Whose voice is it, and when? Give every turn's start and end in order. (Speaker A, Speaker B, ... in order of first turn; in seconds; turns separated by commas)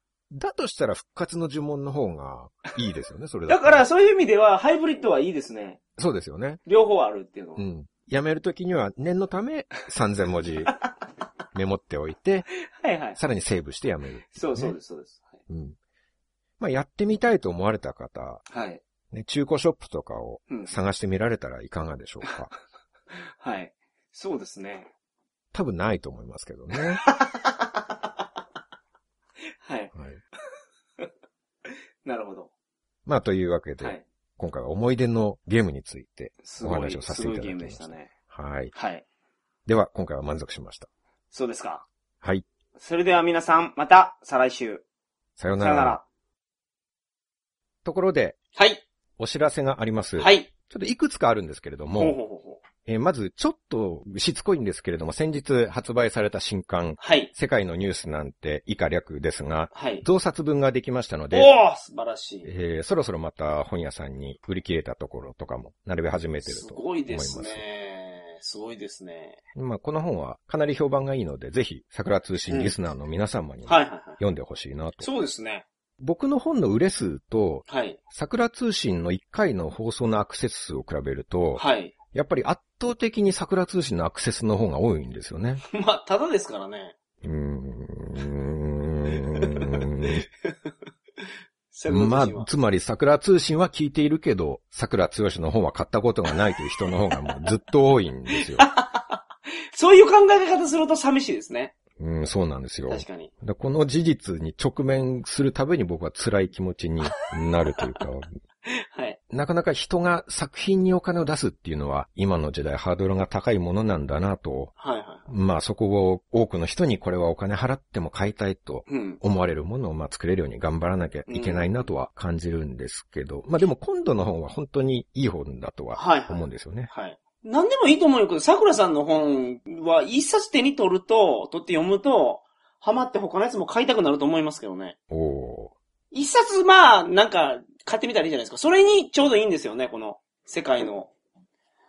Speaker A: 0.3-3.8, Speaker B: 3.5-5.8, Speaker A: 6.0-6.6, Speaker B: 6.7-7.6, Speaker A: 7.6-10.7, Speaker A: 11.5-12.5, Speaker B: 12.7-13.2, Speaker A: 13.2-14.8, Speaker B: 14.3-15.3, Speaker A: 15.5-15.8, Speaker A: 16.6-18.4, Speaker B: 18.5-18.8, Speaker A: 19.1-22.5, Speaker B: 23.1-24.9, Speaker A: 25.5-27.0, Speaker B: 27.0-27.5, Speaker B: 29.6-29.9, Speaker A: 29.9-30.2, Speaker B: 32.0-32.5, Speaker A: 33.0-38.7, Speaker B: 36.4-38.1, Speaker B: 38.7-39.0, Speaker A: 39.6-40.9, Speaker B: 41.3-41.9, Speaker B: 42.8-44.8, Speaker A: 45.4-46.0, Speaker B: 45.6-46.0, Speaker A: 47.8-48.4, Speaker B: 48.5-48.8, Speaker A: 49.2-52.2, Speaker B: 50.2-50.5, Speaker B: 52.0-52.6, Speaker A: 52.8-61.5, Speaker B: 57.0-57.3, Speaker B: 59.7-60.0, Speaker B: 61.3-62.5, Speaker A: 62.4-67.6, Speaker B: 66.4-69.4, Speaker A: 69.5-75.1, Speaker B: 73.7-74.2, Speaker B: 75.0-75.6, Speaker A: 76.0-85.6, Speaker B: 77.7-78.0, Speaker B: 81.5-81.9, Speaker B: 85.7-86.9, Speaker A: 87.2-90.2, Speaker B: 89.4-89.9, Speaker B: 91.7-92.5, Speaker A: 91.9-98.7, Speaker B: 98.3-99.2, Speaker B: 99.7-101.7, Speaker A: 102.0-108.3, Speaker B: 102.9-103.3, Speaker B: 108.7-109.2, Speaker A: 109.3-114.7, Speaker B: 114.8-115.3, Speaker A: 115.3-126.9, Speaker B: 118.8-119.2, Speaker B: 121.3-121.9, Speaker B: 125.9-134.9, Speaker A: 135.1-135.7, Speaker B: 136.1-141.1